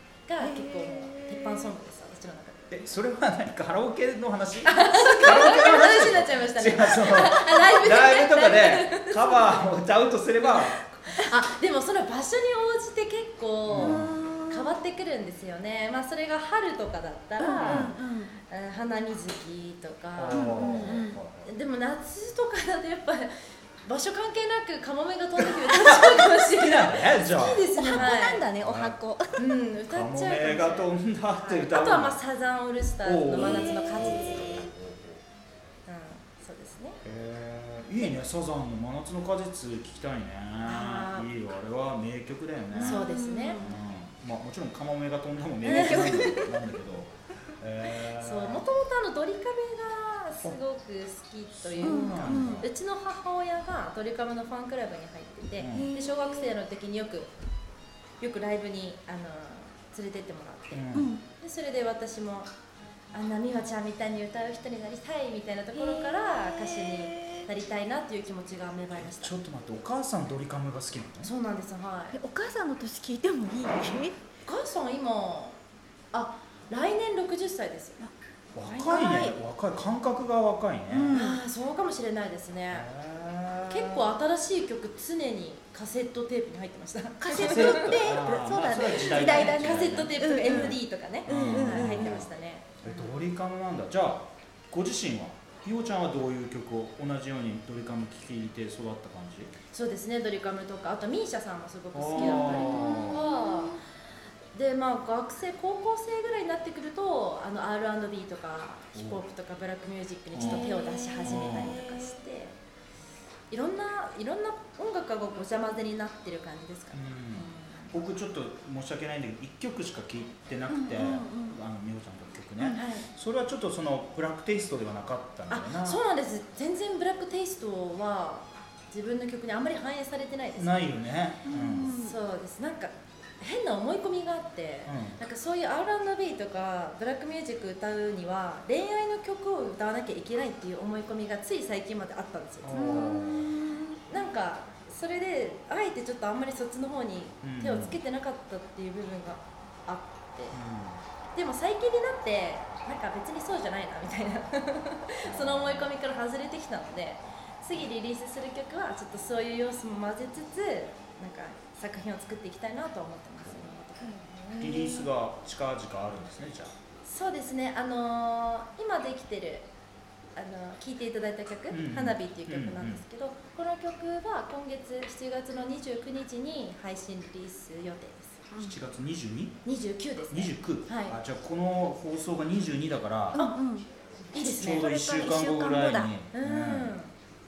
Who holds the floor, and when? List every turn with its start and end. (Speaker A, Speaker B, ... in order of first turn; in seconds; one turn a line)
Speaker A: 0.3-2.7
Speaker B: 0.4-1.7
Speaker C: 2.7-10.8
Speaker A: 4.7-9.7
Speaker A: 11.1-18.0
Speaker C: 13.7-14.2
Speaker B: 13.8-14.7
Speaker B: 17.4-18.4
Speaker C: 17.5-17.9
Speaker A: 18.5-23.3
Speaker C: 20.2-21.5
Speaker B: 20.3-21.2
Speaker A: 23.9-28.5
Speaker C: 25.6-29.0
Speaker B: 27.8-29.4
Speaker A: 29.4-34.5
Speaker C: 29.9-32.2
Speaker C: 33.0-35.2
Speaker B: 33.4-34.7
Speaker A: 35.9-37.0
Speaker C: 37.0-43.1
Speaker A: 40.6-41.3
Speaker B: 42.7-43.8
Speaker A: 42.8-43.6
Speaker C: 43.6-48.7
Speaker B: 45.6-46.6
Speaker A: 45.6-46.5
Speaker A: 48.1-57.3
Speaker C: 51.6-52.7
Speaker B: 51.8-52.6
Speaker C: 55.6-55.9
Speaker B: 55.7-56.5
Speaker A: 58.2-62.5
Speaker C: 60.7-61.1
Speaker B: 60.9-61.2
Speaker A: 63.1-69.3
Speaker B: 65.7-67.5
Speaker C: 68.9-71.3
Speaker A: 71.2-72.2
Speaker B: 72.1-74.2
Speaker A: 74.5-75.6
Speaker A: 76.1-78.0
Speaker C: 78.5-81.2
Speaker B: 78.7-79.3
Speaker B: 80.9-81.4
Speaker A: 81.1-82.9
Speaker C: 82.7-84.1
Speaker A: 83.7-88.0
Speaker B: 87.2-92.2
Speaker C: 87.3-92.3
Speaker A: 88.9-93.1
Speaker C: 92.8-99.5
Speaker A: 99.7-103.8
Speaker C: 101.9-103.3
Speaker B: 102.2-103.8
Speaker A: 104.5-112.6
Speaker C: 109.0-109.2
Speaker C: 110.3-110.7
Speaker B: 110.4-112.2
Speaker C: 111.2-111.8
Speaker A: 113.5-117.9
Speaker C: 116.9-126.0
Speaker B: 120.7-121.6
Speaker A: 122.7-123.1
Speaker A: 125.5-130.9
Speaker C: 130.6-132.0
Speaker B: 131.4-132.2
Speaker A: 132.0-143.2
Speaker C: 134.9-135.2
Speaker C: 142.6-143.5
Speaker B: 142.7-144.0
Speaker A: 144.1-150.6
Speaker C: 147.4-148.0
Speaker C: 150.5-151.0
Speaker A: 151.3-164.3
Speaker C: 155.2-155.9
Speaker B: 164.0-165.1
Speaker C: 164.6-166.7
Speaker A: 167.1-169.7
Speaker A: 170.3-178.5
Speaker C: 171.7-173.0
Speaker C: 178.6-179.6
Speaker A: 179.7-181.2
Speaker C: 180.3-183.4
Speaker B: 183.3-186.1
Speaker A: 184.3-184.9
Speaker C: 184.4-187.0
Speaker A: 186.3-187.1